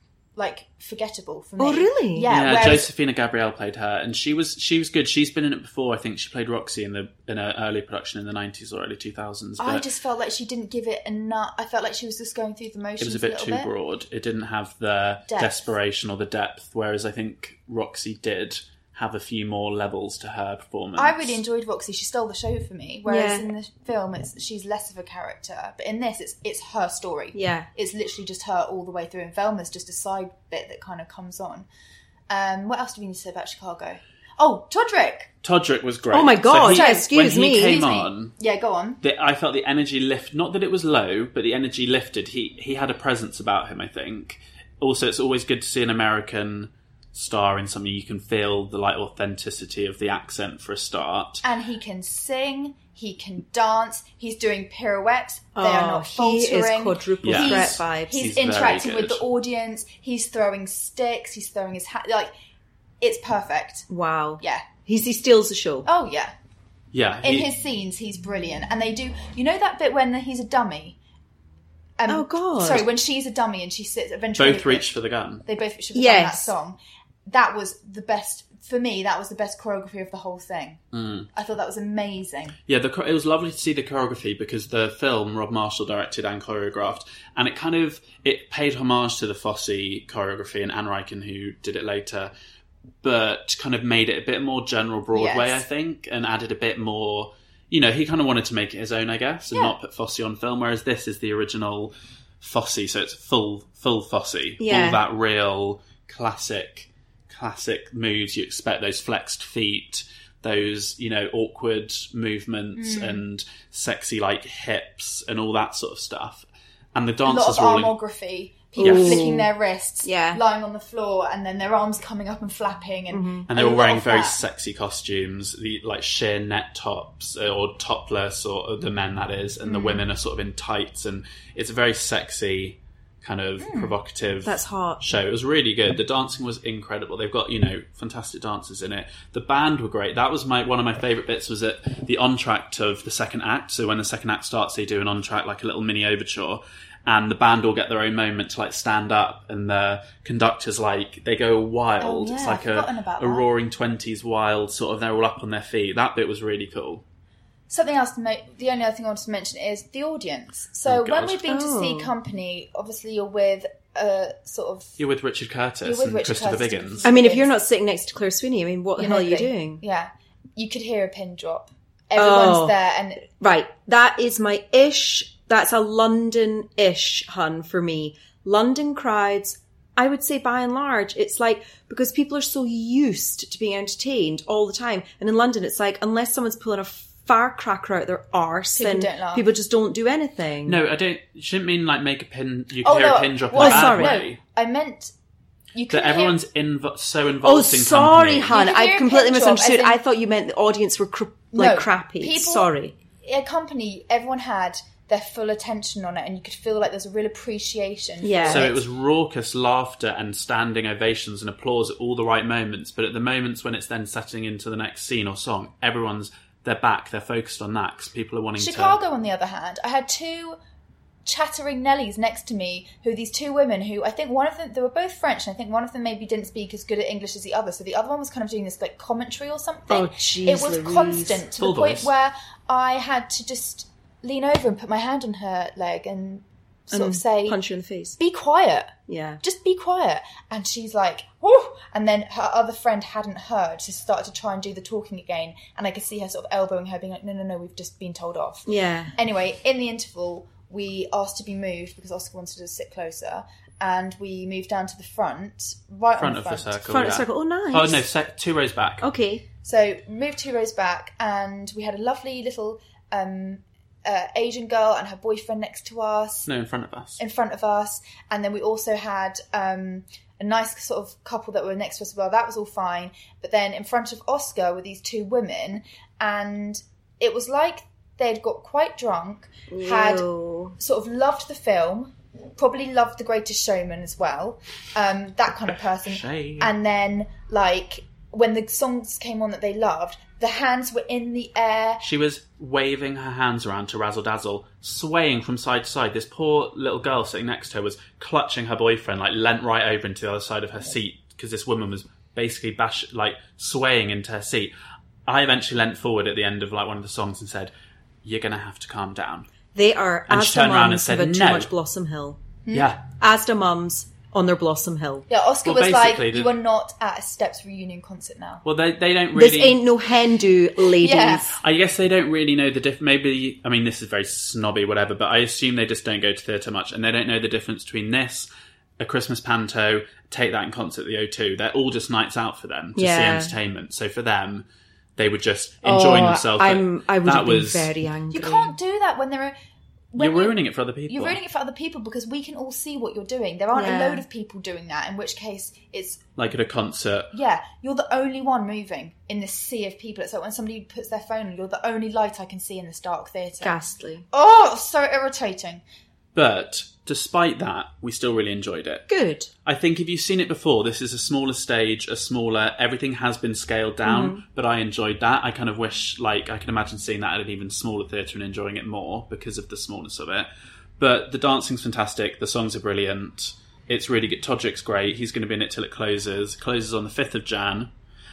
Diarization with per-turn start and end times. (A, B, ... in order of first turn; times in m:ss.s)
0:00.4-0:02.9 A
0:01.6-0:02.3 B
0:02.3-0:09.9 C
0:09.6-0:13.7 A
0:13.0-0:21.4 C
0:15.3-0:15.6 A
0:21.0-0:31.7 A
0:23.1-0:23.5 B
0:27.3-0:27.7 B
0:32.3-0:35.3 A
0:35.4-0:38.3 C
0:36.1-0:37.8 B
0:36.7-0:39.0 A
0:39.0-0:51.4 C
0:51.4-1:02.3 A
0:55.6-0:58.3 B
0:57.2-0:59.2 C
1:03.0-1:03.9 A
1:03.9-1:05.9 B
1:04.4-1:04.7 A
1:05.9-1:06.3 A
1:06.9-1:07.5 C
1:07.2-1:11.0 A
1:12.0-1:14.9 A
1:12.1-1:12.8 B
1:14.4-1:15.5 C
1:15.4-1:20.8 A
1:16.0-1:16.5 B
1:20.9-1:21.3 C
1:21.3-1:22.6 A
1:22.7-1:32.3 C
1:33.0-1:58.0 C
1:35.1-1:35.6 A
1:44.6-1:45.0 B
1:52.8-1:53.2 A
1:57.2-2:04.4 A
1:58.8-1:59.5 B
1:58.8-1:59.2 C
2:00.0-2:00.4 B
2:03.1-2:03.5 B
2:03.5-2:37.0 C
2:09.6-2:10.0 A
2:13.6-2:13.9 A
2:14.4-2:15.0 B
2:32.0-2:33.5 A
2:37.7-2:45.0 A
2:40.9-2:41.4 C
2:41.5-2:42.1 B
2:45.0-2:47.1 C
2:45.8-2:47.5 A
2:47.0-2:49.8 B
2:49.0-2:53.3 A
2:52.2-2:52.8 B
2:53.4-3:10.8 B
3:08.8-3:09.4 A
3:10.6-3:14.4 C
3:12.8-3:15.1 A
3:13.6-3:14.2 B
3:15.7-3:16.4 A
3:15.9-3:18.6 C
3:17.4-3:23.0 B
3:18.5-3:20.0 A
3:21.5-3:22.7 A
3:23.2-3:28.8 A
3:28.2-3:28.7 B
3:28.5-3:39.0 C
3:38.6-3:40.6 A
3:41.2-3:57.6 A
3:49.9-3:51.4 B
3:51.6-3:52.1 C
3:56.9-3:58.2 B
3:58.2-4:17.0 A
3:59.1-3:59.4 B
4:08.7-4:09.1 B
4:16.2-4:19.1 C
4:16.9-4:18.0 B
4:19.0-4:19.4 B
4:19.6-4:26.5 A
4:26.5-4:27.2 C
4:27.2-4:52.0 A
4:39.7-4:40.8 B
4:45.9-4:46.7 C
4:52.0-5:04.7 C
5:05.3-5:07.7 C
5:08.2-5:09.5 C
5:09.8-5:12.4 B
5:10.3-5:11.7 C
5:12.7-5:13.0 C
5:13.1-5:15.3 B
5:15.3-5:18.6 A
5:15.6-5:16.6 C
5:18.6-5:19.8 C
5:19.3-5:21.6 B
5:21.0-5:21.6 A
5:21.6-5:28.5 C
5:29.0-5:34.7 C
5:33.0-5:33.6 B
5:35.2-5:37.9 C
5:35.8-5:38.8 B
5:38.3-5:39.6 A
5:40.1-5:40.6 A
5:40.2-5:41.4 C
5:41.1-5:46.2 A
5:43.7-5:44.2 B
5:46.4-5:47.3 C
5:47.3-5:53.8 A
5:53.6-5:54.2 B
5:54.3-5:55.8 A
5:56.4-5:59.1 C
5:59.1-5:59.5 B
5:59.6-6:10.5 C
6:04.0-6:04.4 B
6:11.0-6:17.9 C